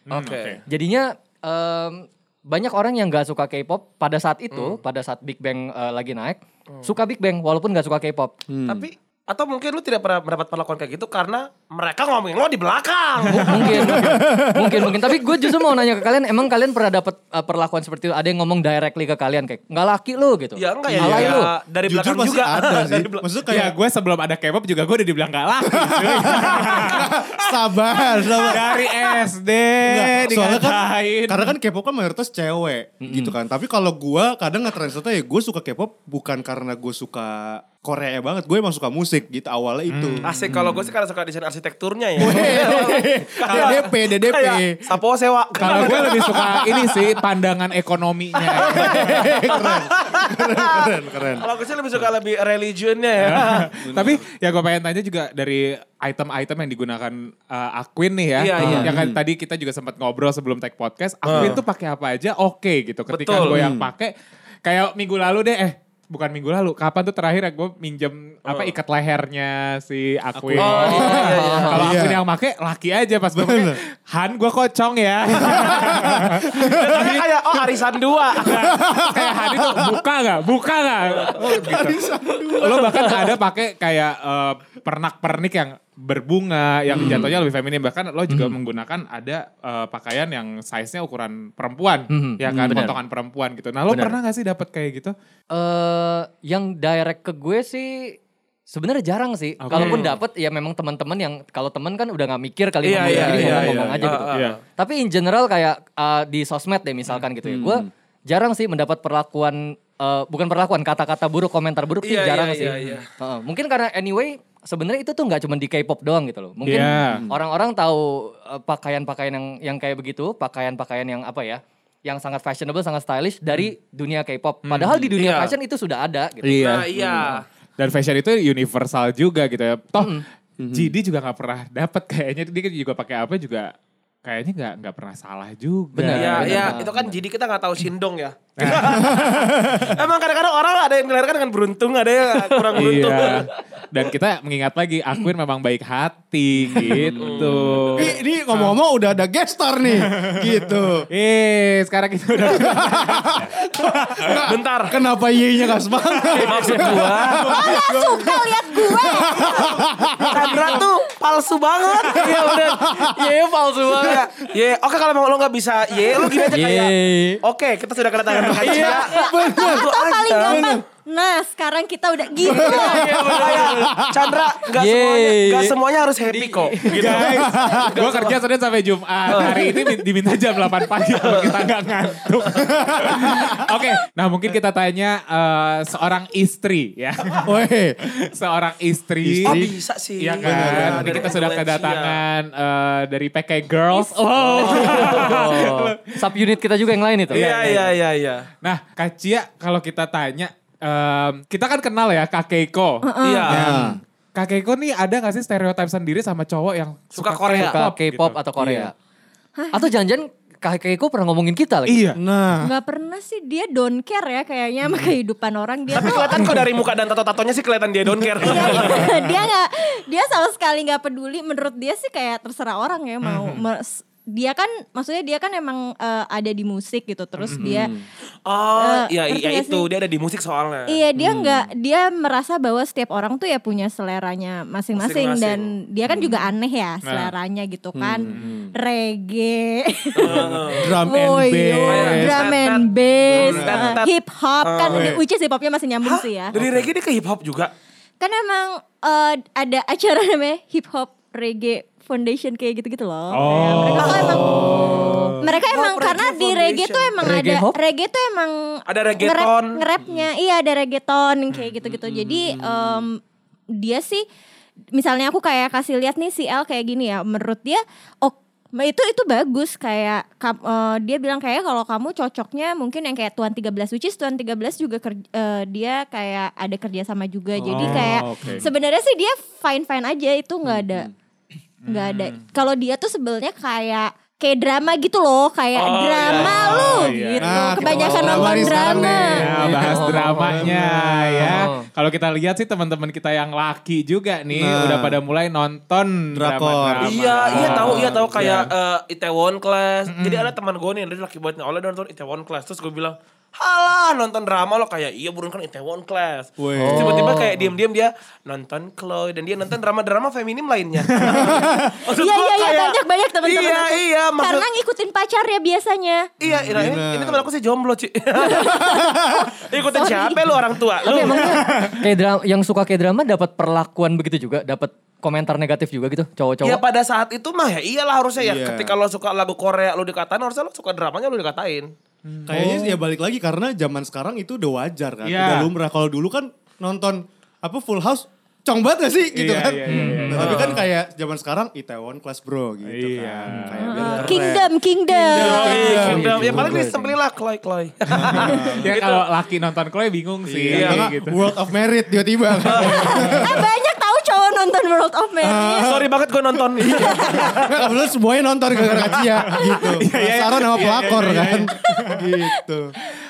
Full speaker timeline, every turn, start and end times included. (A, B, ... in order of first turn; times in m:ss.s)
0:00.1-0:00.6 A
0:00.1-0:00.6 B
0:00.7-0:08.4 C
0:04.5-0:04.8 B
0:08.5-0:08.8 D
0:08.7-0:14.2 B
0:13.3-0:21.5 C
0:13.5-0:15.5 D
0:20.6-0:23.2 B
0:20.9-0:23.8 D
0:23.5-0:27.2 A
0:25.8-0:28.9 D
0:27.9-0:31.6 A
0:29.8-0:40.3 D
0:33.0-0:33.4 C
0:39.9-0:40.8 A
0:40.2-0:46.5 B
0:42.2-0:44.9 D
0:43.5-0:43.8 A
0:45.6-0:49.7 A
0:45.6-0:47.0 D
0:48.6-0:51.5 D
0:48.6-0:49.0 B
0:49.5-0:53.6 B
0:53.2-1:04.1 A
0:53.7-0:54.2 D
0:58.4-0:59.0 B
0:58.6-0:59.1 D
0:58.6-0:59.0 C
1:01.2-1:01.6 B
1:03.1-1:03.6 B
1:03.4-1:03.9 D
1:04.6-1:17.2 A
1:08.5-1:08.8 B
1:10.4-1:12.2 D
1:10.6-1:11.7 B
1:10.7-1:11.9 C
1:13.3-1:13.8 D
1:15.4-1:17.7 D
1:16.6-1:18.6 B
1:18.4-1:20.0 D
1:18.5-1:22.0 A
1:21.4-1:23.0 D
1:22.6-1:35.1 A
1:22.9-1:23.3 C
1:26.9-1:27.4 C
1:28.3-1:28.6 C
1:32.1-1:33.0 C
1:32.5-1:32.9 D
1:33.9-1:34.2 C
1:35.6-1:38.2 C
1:38.7-2:07.3 C
1:39.6-1:40.2 A
1:39.7-1:40.1 B
1:42.8-1:44.6 B
1:42.9-1:44.2 D
1:43.3-1:44.6 A
1:47.4-1:47.9 D
1:52.0-1:53.0 B
1:56.6-1:57.2 A
1:56.7-1:57.4 D
2:04.6-2:05.1 A
2:05.1-2:05.6 B
2:06.4-2:07.2 A
2:06.6-2:07.4 B
2:07.0-2:07.3 D
2:07.8-2:13.7 A
2:10.0-2:10.2 C
2:10.6-2:11.0 D
2:14.2-2:16.8 A
2:16.0-2:16.9 C
2:16.0-2:23.4 B
2:18.6-2:19.3 A
2:18.7-2:20.0 D
2:22.4-2:23.4 C
2:22.8-2:28.8 A
2:26.7-2:31.1 D
2:27.0-2:28.1 B
2:29.9-2:34.4 A
2:32.4-2:40.9 D
2:34.4-2:35.0 B
2:36.2-2:37.4 C
2:36.4-2:37.5 B
2:37.4-2:40.9 E
2:40.3-2:42.2 B
2:42.1-2:43.3 D
2:42.1-2:44.2 C
2:44.0-2:50.7 B
2:46.1-2:46.5 D
2:46.5-2:47.4 C
2:48.6-2:48.9 C
2:48.6-2:50.8 D
2:48.7-2:53.1 E
2:52.4-2:54.4 D
2:52.5-2:54.0 C
2:52.7-2:58.4 B
2:54.7-2:57.2 C
2:57.0-3:07.5 A
2:57.3-2:57.9 D
2:59.3-2:59.7 B
3:01.2-3:01.5 B
3:02.8-3:03.4 D
3:07.4-3:08.0 D
3:08.1-3:09.7 A
3:09.2-3:09.7 D
3:09.4-3:12.2 B
3:10.2-3:16.4 A
3:10.4-3:11.3 D
3:13.9-3:14.2 E
3:14.3-3:15.4 B
3:14.7-3:17.6 C
3:17.3-3:18.5 B
3:17.3-3:17.9 A
3:18.6-3:28.8 A
3:23.0-3:23.7 E
3:23.2-3:23.7 B
3:23.5-3:24.0 D
3:27.1-3:27.8 B
3:27.5-3:28.9 C
3:29.6-3:30.0 E
3:29.7-3:32.1 C
3:31.9-3:32.2 A
3:32.1-3:32.7 D
3:32.6-3:36.5 E
3:34.9-3:35.1 C
3:36.0-3:39.1 B
3:38.4-3:47.9 E
3:43.2-3:43.6 A
3:47.4-3:48.0 D
3:47.5-3:47.7 A
3:48.5-3:51.0 B
3:48.8-3:49.9 E
3:50.9-4:06.6 E
3:51.2-3:51.6 A
3:54.9-3:55.7 B
3:56.1-3:56.5 D
3:57.0-3:57.3 A
3:57.9-3:58.7 D
3:58.2-3:58.5 A
4:00.2-4:00.8 B
4:00.8-4:02.5 D
4:01.9-4:05.2 B
4:03.3-4:04.0 D
4:04.9-4:05.2 D
4:06.0-4:07.7 B
4:06.5-4:06.9 A
4:08.2-4:23.2 E
4:13.3-4:15.3 A
4:14.0-4:14.7 B
4:14.3-4:15.3 D
4:15.6-4:17.3 B
4:17.2-4:17.8 C
4:18.9-4:19.8 B
4:20.0-4:20.3 D
4:21.8-4:23.0 D
4:23.8-4:24.2 E
4:24.9-4:41.1 E
4:37.6-4:38.6 D
4:37.7-4:38.7 A
4:40.6-4:41.1 D
4:41.8-4:42.4 A
4:41.9-4:49.5 E
4:45.8-4:47.0 B
4:46.4-4:58.7 A
4:47.4-4:51.6 D
4:49.6-4:50.7 C
4:51.4-4:51.8 C
4:54.5-4:55.2 D
4:56.3-4:58.1 D
4:57.0-5:14.7 B
4:57.7-4:58.2 C
5:00.1-5:00.5 A
5:06.6-5:07.3 D
5:06.8-5:07.6 C
5:11.2-5:16.2 E
5:11.3-5:11.8 D
5:16.4-5:18.9 B
5:16.4-5:17.5 D
5:18.4-5:21.2 E
5:18.7-5:19.5 D
5:19.5-5:21.6 B
5:21.1-5:26.8 C
5:21.5-5:22.0 A
5:26.6-5:31.9 B
5:28.4-5:29.0 D
5:32.2-5:33.0 A
5:32.5-5:44.7 D
5:35.2-5:35.7 A
5:39.3-5:40.8 A
5:39.9-5:40.6 C
5:42.8-5:43.8 A
5:43.5-5:43.8 C
5:43.8-5:46.1 E
5:44.1-5:44.4 B
5:45.1-5:49.3 B
5:45.3-5:46.9 D
5:46.0-5:47.1 C
5:48.1-5:48.9 D
5:48.3-5:51.4 A
5:48.4-5:48.8 E
5:50.5-5:53.7 D
5:50.7-5:51.1 B
5:52.7-5:53.0 B
5:52.8-5:56.0 E
5:55.4-6:02.9 D
5:55.8-5:57.8 B
5:57.0-5:57.4 E
5:58.8-6:02.2 A
6:01.8-6:02.5 E